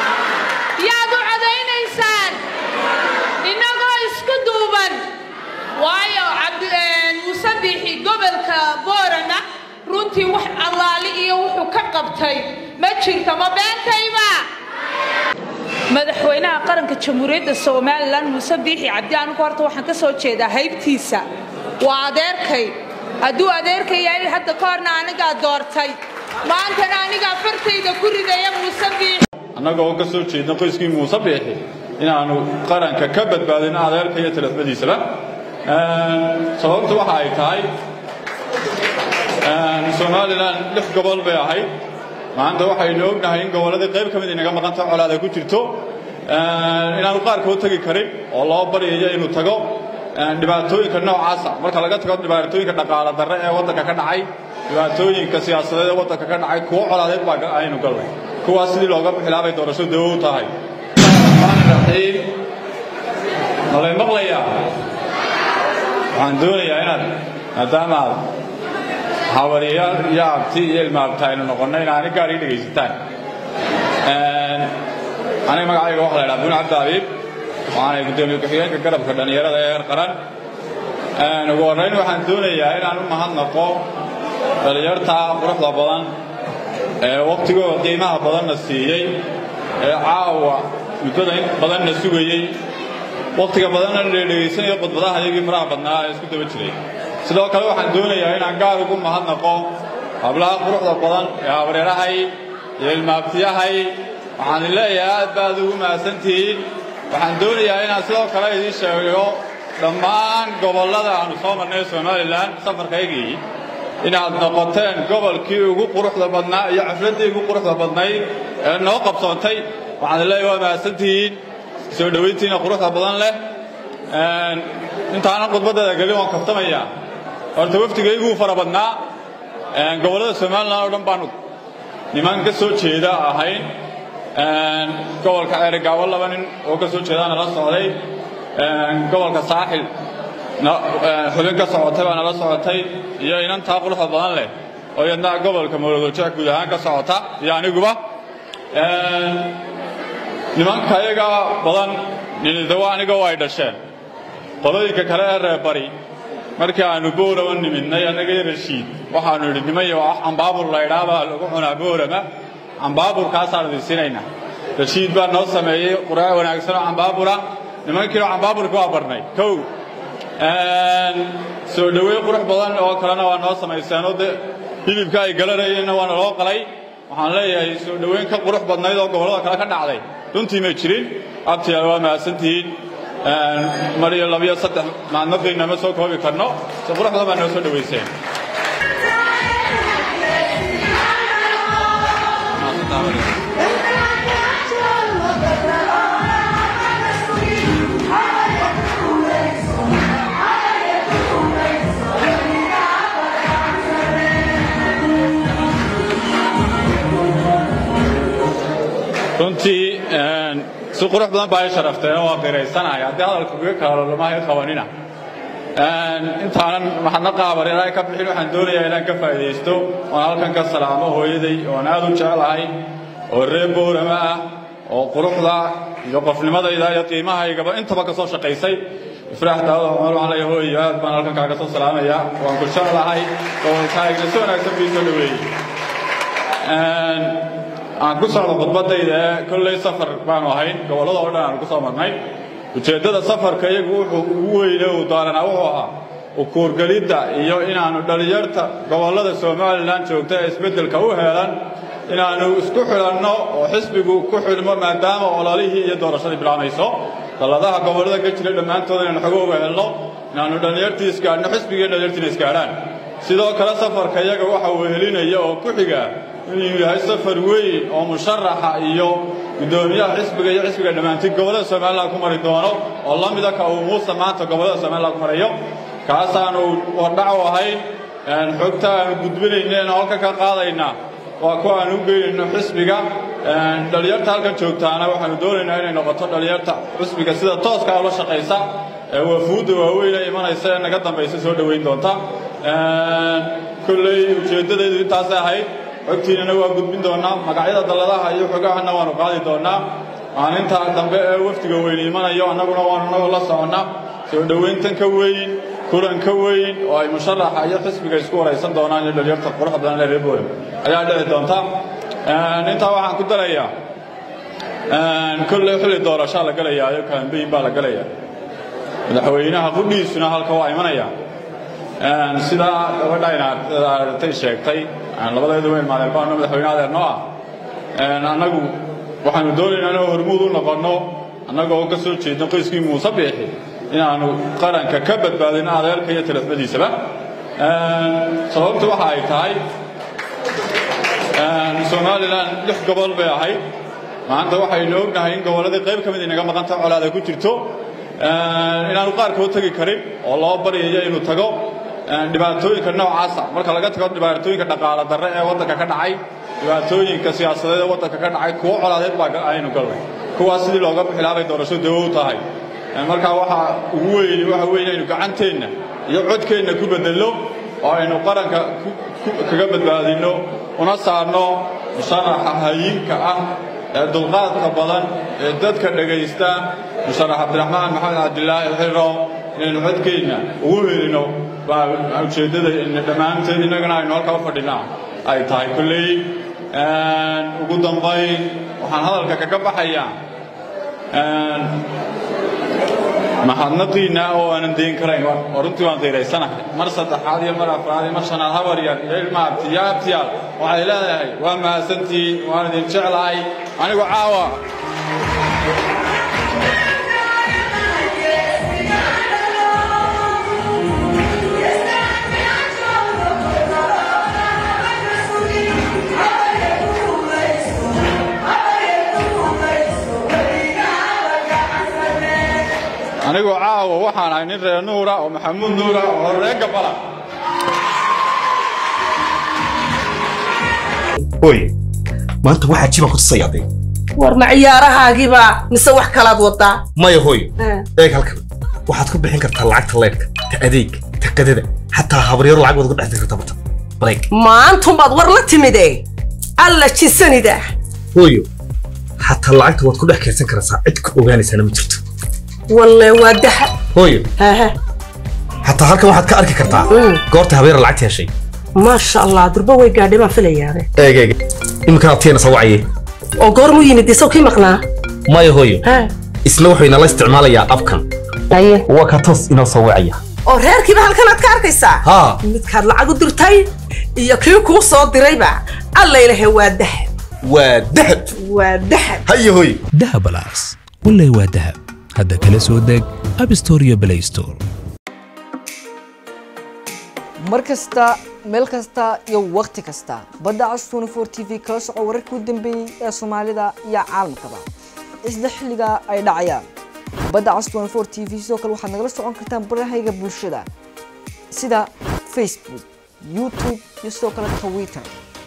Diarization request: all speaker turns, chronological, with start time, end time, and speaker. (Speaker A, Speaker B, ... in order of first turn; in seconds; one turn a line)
Speaker A: 0.8-2.4
Speaker A: 3.4-5.0
Speaker A: 5.8-14.4
Speaker A: 15.9-21.2
Speaker A: 21.8-29.2
Speaker B: 29.5-37.7
Speaker B: 39.4-41.7
Speaker B: 42.3-62.4
Speaker B: 63.7-64.7
Speaker B: 66.1-68.2
Speaker B: 69.3-72.9
Speaker B: 74.0-74.7
Speaker B: 75.5-77.1
Speaker B: 77.7-80.2
Speaker B: 81.2-83.8
Speaker B: 84.6-86.1
Speaker B: 87.0-89.2
Speaker B: 89.8-92.6
Speaker B: 93.3-113.4
Speaker B: 114.0-123.4
Speaker B: 124.1-126.9
Speaker B: 127.5-129.0
Speaker B: 129.7-131.3
Speaker B: 132.1-133.7
Speaker B: 134.3-138.0
Speaker B: 138.5-139.9
Speaker B: 140.6-148.0
Speaker B: 148.7-149.6
Speaker B: 150.5-153.8
Speaker B: 154.6-155.9
Speaker B: 156.6-162.2
Speaker B: 162.8-164.2
Speaker B: 164.8-169.7
Speaker B: 170.4-188.1
Speaker B: 192.5-193.4
Speaker B: 209.3-214.9
Speaker B: 215.7-222.8
Speaker B: 223.3-235.5
Speaker B: 236.6-242.2
Speaker B: 242.7-313.7
Speaker B: 314.9-318.1
Speaker B: 319.1-321.1
Speaker B: 322.0-327.3
Speaker B: 327.9-337.0
Speaker B: 337.6-339.6
Speaker B: 341.3-343.6
Speaker B: 344.2-362.4
Speaker B: 362.9-390.1
Speaker B: 391.1-391.9
Speaker B: 393.4-404.6
Speaker B: 423.2-427.0
Speaker C: 431.4-431.7
Speaker C: 432.4-433.7
Speaker D: 434.3-435.0
Speaker D: 435.8-436.8
Speaker C: 436.9-444.3
Speaker D: 445.2-445.7
Speaker D: 446.6-447.4
Speaker C: 448.1-448.5
Speaker C: 449.2-452.0
Speaker C: 453.9-454.3
Speaker C: 455.6-458.3
Speaker D: 458.9-460.8
Speaker C: 461.0-461.4
Speaker C: 461.9-462.8
Speaker D: 463.4-464.7
Speaker C: 465.3-465.9
Speaker C: 466.4-468.0
Speaker C: 468.8-470.2
Speaker D: 470.6-472.0
Speaker C: 472.0-472.4
Speaker D: 472.5-473.6
Speaker D: 474.2-477.0
Speaker C: 477.4-478.3
Speaker D: 478.6-479.1
Speaker C: 479.3-479.8
Speaker E: 479.9-484.6
Speaker F: 487.4-494.6
Speaker F: 495.2-496.7
Speaker F: 497.3-500.7
Speaker F: 501.5-505.1